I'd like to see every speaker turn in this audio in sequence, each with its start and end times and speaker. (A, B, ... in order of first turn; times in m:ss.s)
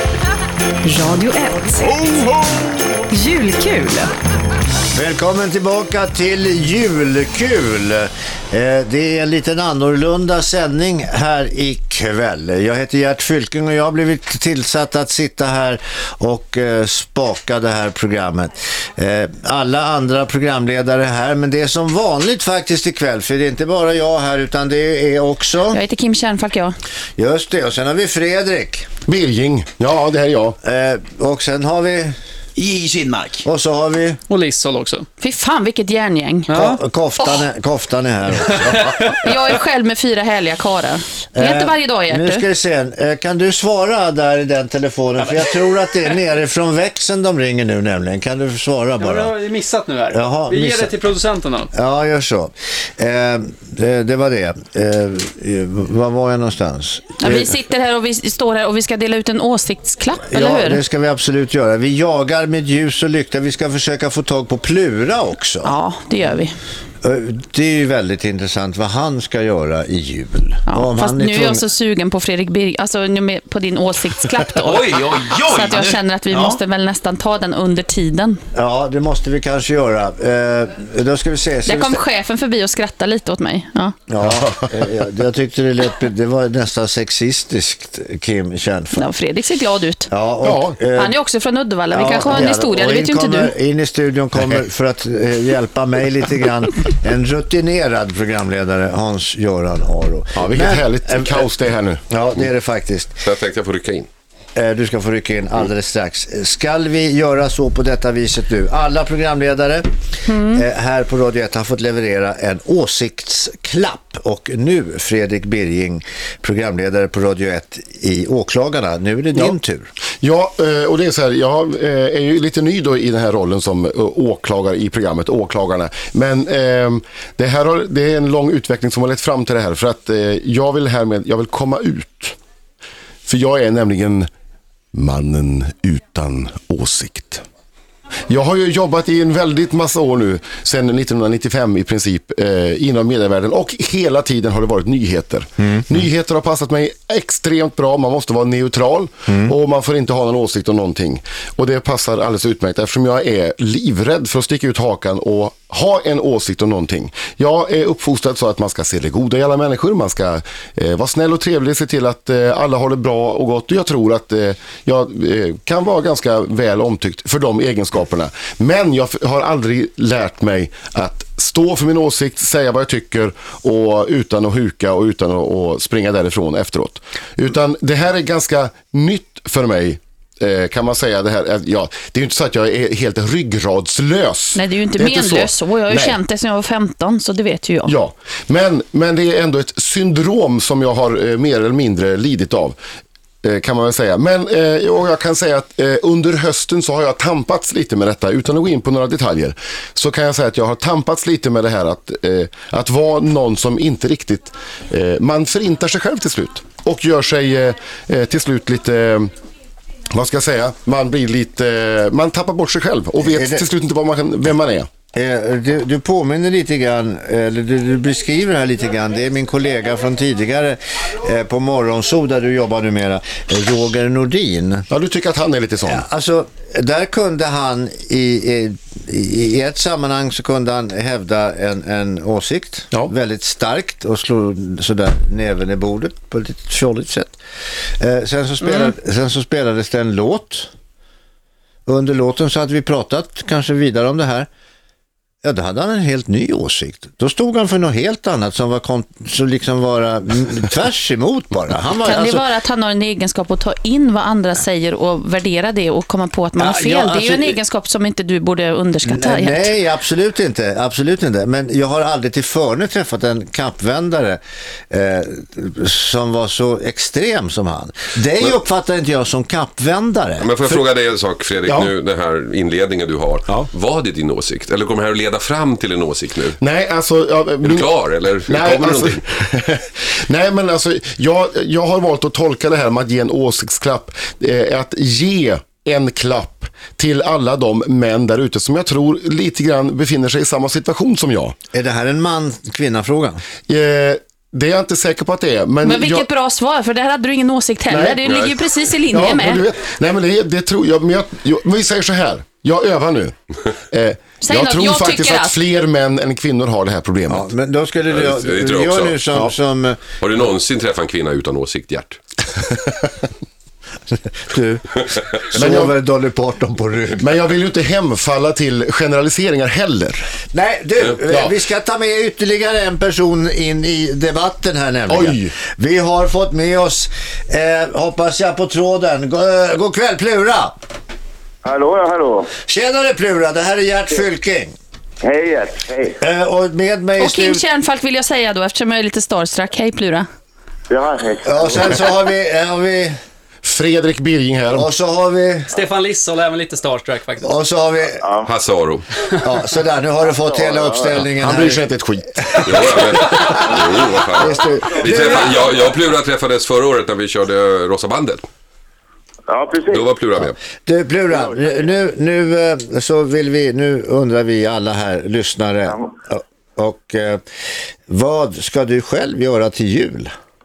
0:00.8-0:02.2 A
0:03.1-0:04.1 A
0:04.9-0:25.8 B
0:25.7-0:26.7 C
0:27.2-0:28.9 B
0:29.1-0:30.6 D
0:30.6-0:32.2 B
0:32.6-0:33.4 E
0:33.4-0:34.2 B
0:34.3-0:35.1 F
0:35.2-0:36.6 C
0:36.5-0:36.8 F
0:36.5-0:39.1 B
0:39.2-0:42.4 C
0:41.3-0:49.3 B
0:49.0-0:51.7 F
0:50.1-0:51.0 B
0:51.7-0:57.5 B
0:57.2-1:00.8 C
1:00.3-1:05.7 B
1:05.6-1:06.5 C
1:07.0-1:11.7 B
1:10.7-1:18.4 C
1:14.7-1:16.6 E
1:18.5-1:22.0 B
1:21.6-1:24.0 C
1:24.1-1:29.1 B
1:28.9-1:30.1 C
1:30.1-1:31.2 B
1:30.4-1:30.8 D
1:30.9-1:33.5 C
1:31.9-1:41.5 B
1:40.4-1:42.0 D
1:42.1-1:43.2 B
1:43.2-1:44.1 G
1:44.6-1:49.8 B
1:50.3-1:50.6 C
1:50.5-1:59.9 B
2:00.2-2:12.4 D
2:13.2-2:14.3 D
2:14.9-2:17.4 D
2:18.3-3:06.2 D
3:04.6-3:08.0 C
3:07.8-3:12.8 D
3:13.4-3:29.3 D
3:30.1-3:34.9 D
3:33.2-3:33.6 B
3:35.1-3:44.9 B
3:44.9-3:46.0 D
3:45.8-3:57.4 B
3:58.0-4:00.7 B
4:01.8-4:04.5 B
4:05.4-4:12.4 B
4:12.0-4:19.7 C
4:16.6-4:17.6 B
4:19.0-4:30.8 B
4:30.4-4:36.6 G
4:36.6-4:37.9 D
4:37.6-4:39.2 G
4:38.4-4:51.5 D
4:51.7-4:53.4 B
4:53.7-4:56.3 D
4:55.8-4:59.6 C
4:57.9-4:58.3 D
4:59.1-5:03.3 D
5:03.9-5:07.5 D
5:04.4-5:05.6 C
5:07.3-5:10.0 B
5:08.1-5:09.2 G
5:10.2-5:12.2 G
5:14.3-5:15.0 B
5:15.5-5:17.2 B
5:15.6-5:15.9 D
5:17.2-5:20.2 D
5:20.5-5:30.8 B
5:21.3-5:21.5 D
5:25.1-5:25.5 D
5:31.6-5:32.6 H
5:32.6-5:34.7 B
5:35.2-5:36.2 H
5:36.2-5:37.6 B
5:37.2-5:40.3 C
5:40.9-5:42.1 H
5:41.4-5:43.1 B
5:43.6-5:44.9 D
5:44.7-5:45.7 B
5:45.7-5:47.5 F
5:47.4-5:48.2 B
5:48.2-5:48.5 H
5:48.4-5:49.0 G
5:49.4-5:51.8 B
5:50.2-5:51.2 H
5:51.3-5:53.6 D
5:52.6-5:58.4 G
5:53.3-5:53.6 B
5:54.3-5:55.8 B
5:54.4-5:55.9 H
5:59.5-6:00.0 H
5:59.9-6:00.6 G
6:00.8-6:07.4 B
6:01.3-6:01.8 H
6:08.1-6:10.3 B